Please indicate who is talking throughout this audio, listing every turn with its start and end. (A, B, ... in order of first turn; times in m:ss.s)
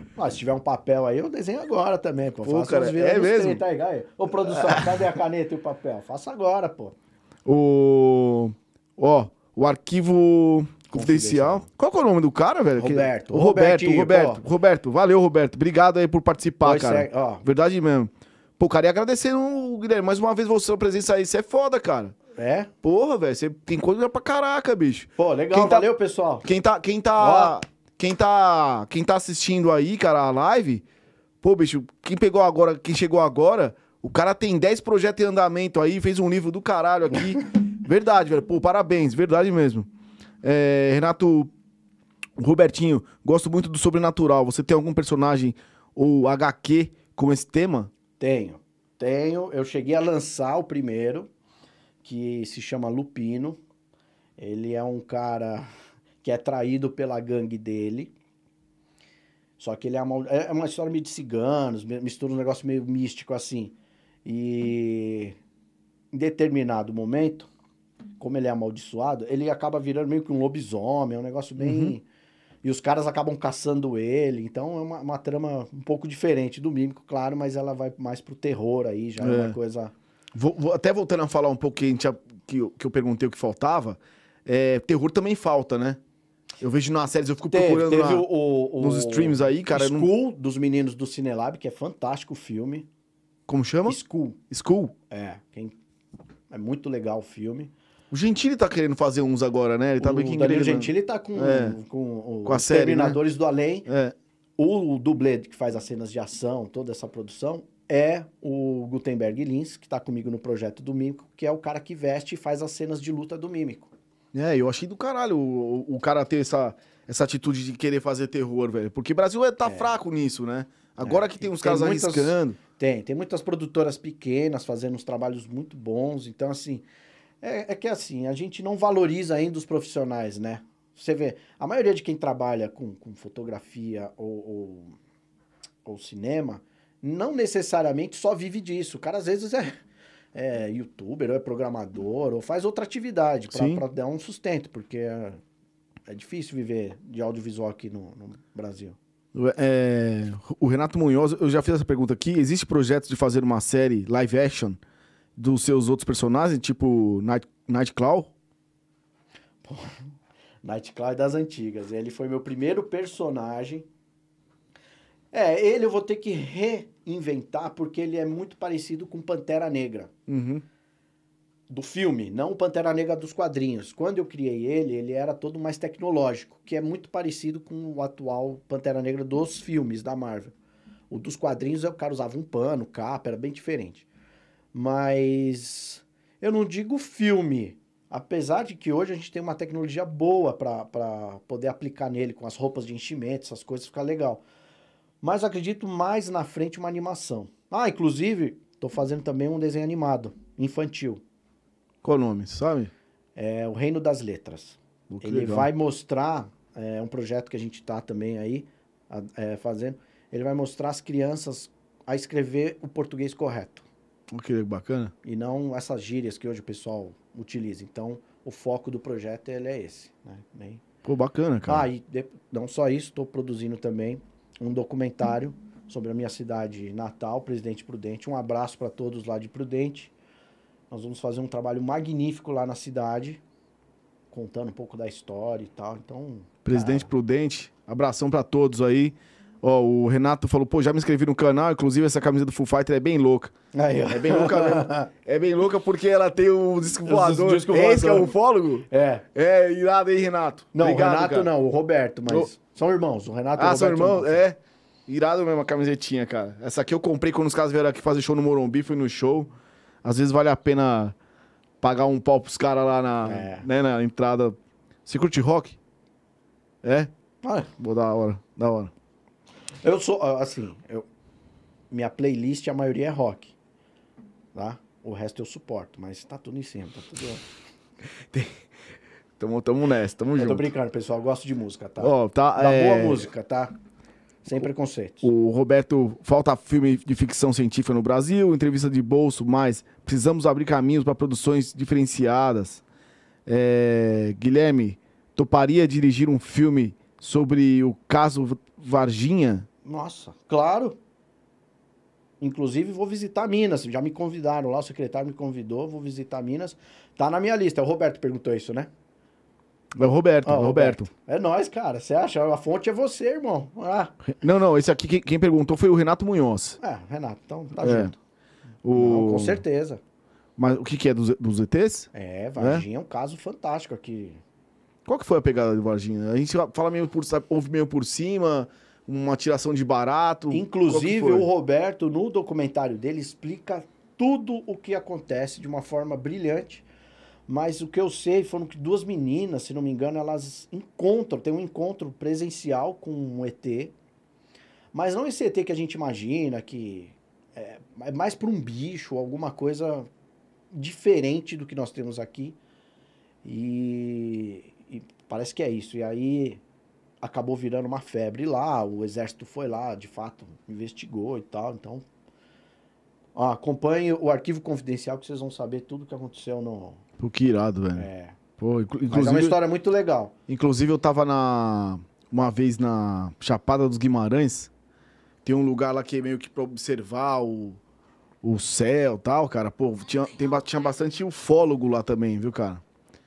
0:00.2-0:06.9 A
0:02.4-0:03.6 B
0:04.4-0:05.0 B
0:07.4-0:22.2 B
0:10.9-0:11.6 A
0:12.8-0:14.4 A
0:16.6-0:17.4 A
0:22.4-0:22.7 A
0:22.8-0:25.9 B
0:25.2-0:26.4 A
0:26.4-0:30.8 B
0:27.2-0:27.6 A
0:31.4-0:39.9 B
0:40.4-0:41.5 B
0:42.4-0:47.9 B
0:48.2-0:51.3 A
0:52.0-0:53.6 A
0:54.4-0:55.7 A
0:56.2-0:58.1 A
0:59.6-1:05.4 A
1:06.1-1:07.5 A
1:08.2-1:12.0 A
1:11.6-1:11.9 B
1:12.6-1:19.9 A
1:19.2-1:19.6 B
1:20.3-1:26.0 B
1:26.6-1:28.3 B
1:27.5-1:32.9 A
1:28.8-1:30.1 B
1:33.5-1:34.0 B
1:33.9-1:34.4 A
1:34.5-1:34.9 B
1:35.1-1:35.8 A
1:36.5-1:37.7 A
1:38.1-1:41.8 B
1:40.0-1:43.9 A
1:42.4-1:43.2 B
1:43.9-1:44.1 B
1:44.6-1:53.9 A
1:54.3-2:02.6 B
1:59.6-1:59.9 A
2:01.0-2:06.8 A
2:07.4-2:15.0 A
2:15.8-2:19.8 A
2:20.3-2:25.4 A
2:23.5-2:23.8 B
2:26.1-2:29.0 A
2:29.3-2:34.8 B
2:35.4-2:38.3 B
2:39.6-2:40.0 A
2:40.6-2:43.9 A
2:45.3-2:50.1 A
2:50.3-2:50.6 B
2:51.7-3:00.5 A
3:01.1-3:04.0 A
3:04.7-3:14.4 A
3:15.2-3:21.2 A
3:22.0-3:22.9 B
3:23.4-3:33.9 A
3:25.1-3:25.7 B
3:34.3-3:35.1 B
3:35.2-3:40.8 A
3:41.0-3:41.9 B
3:41.7-3:50.1 A
3:50.9-3:53.4 A
3:54.3-3:57.1 A
3:56.6-4:03.5 B
4:03.7-4:05.1 A
4:04.1-4:11.5 B
4:07.0-4:08.3 A
4:08.9-4:09.2 A
4:10.7-4:14.4 A
4:13.6-4:19.5 B
4:20.0-4:21.2 B
4:21.8-4:25.8 B
4:23.2-4:23.7 A
4:26.8-4:27.1 B
4:27.4-4:27.7 A
4:27.8-4:28.9 B
4:29.8-4:31.0 A
4:31.9-4:33.5 A
4:34.5-4:37.4 A
4:38.3-4:38.7 B
4:39.4-4:40.7 B
4:40.4-4:43.7 A
4:42.0-4:43.3 B
4:44.4-4:45.3 A
4:45.2-4:52.8 B
4:53.4-4:59.7 B
4:59.8-5:01.0 A
5:02.4-5:08.9 A
5:10.0-5:11.1 B
5:10.4-5:14.1 A
5:14.2-5:16.8 B
5:16.8-5:18.2 A
5:17.8-5:18.1 B
5:18.8-5:19.6 B
5:18.9-5:20.0 A
5:20.6-5:22.8 B
5:22.1-5:24.4 A
5:25.0-5:31.5 B
5:30.5-5:36.9 A
5:37.5-5:43.9 A
5:44.9-5:50.1 A
5:50.7-5:52.6 A
5:53.4-5:56.6 A
5:57.2-6:02.0 A
6:03.3-6:07.0 A
6:07.2-6:08.1 B
6:07.9-6:08.4 A
6:08.6-6:09.6 B
6:09.1-6:10.3 A
6:10.5-6:14.7 B
6:15.4-6:17.8 B
6:18.4-6:22.8 B